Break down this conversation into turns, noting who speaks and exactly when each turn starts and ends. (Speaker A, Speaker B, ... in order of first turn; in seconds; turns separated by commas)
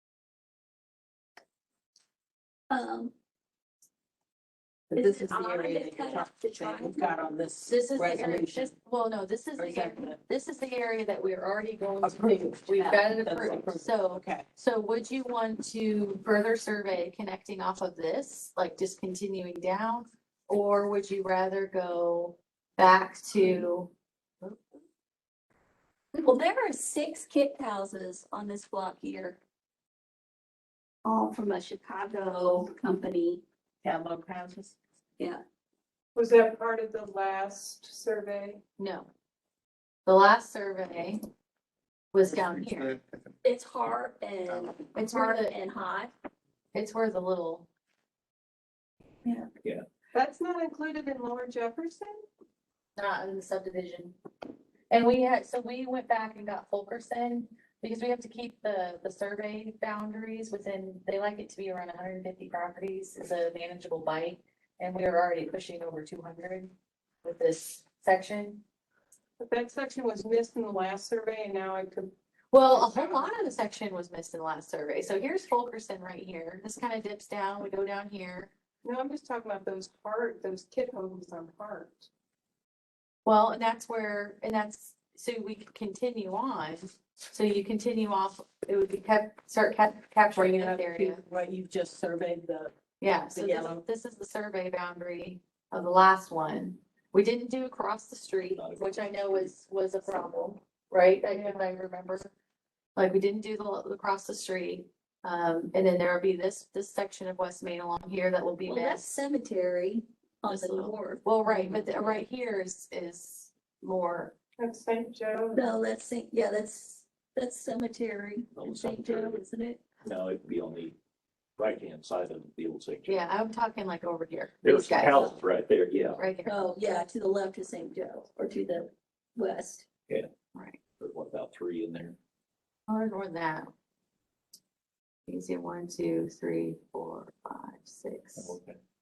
Speaker A: 2.7-3.1, Speaker B: 4.9-8.7, Speaker A: 5.0-7.0, Speaker C: 7.7-23.9, Speaker B: 9.6-10.2, Speaker B: 12.0-14.5, Speaker A: 26.1-29.4, Speaker A: 31.1-33.4, Speaker B: 33.8-34.8, Speaker D: 36.1-38.6, Speaker C: 38.8-39.1, Speaker C: 40.1-41.2, Speaker C: 42.1-43.0, Speaker A: 43.4-46.1, Speaker C: 45.0-45.5, Speaker C: 46.7-47.7, Speaker D: 50.1-52.2, Speaker C: 53.0-54.2, Speaker C: 54.9-68.6, Speaker D: 69.4-72.1, Speaker C: 72.5-78.5, Speaker D: 72.7-73.4, Speaker D: 78.8-82.1, Speaker C: 83.2-91.2, Speaker B: 90.3-92.7, Speaker C: 93.0-102.3, Speaker B: 93.3-93.8, Speaker E: 98.4-99.5, Speaker D: 101.3-101.6, Speaker C: 103.0-109.1, Speaker A: 108.7-112.1, Speaker C: 110.5-114.4, Speaker D: 114.6-115.8, Speaker A: 115.5-119.9, Speaker E: 118.6-119.4, Speaker E: 120.0-121.0, Speaker E: 121.6-123.2, Speaker C: 123.1-125.4, Speaker E: 124.6-126.3, Speaker C: 126.2-126.7, Speaker A: 126.5-129.8, Speaker E: 131.0-132.2, Speaker C: 132.9-133.7, Speaker C: 135.3-138.6, Speaker E: 138.4-138.8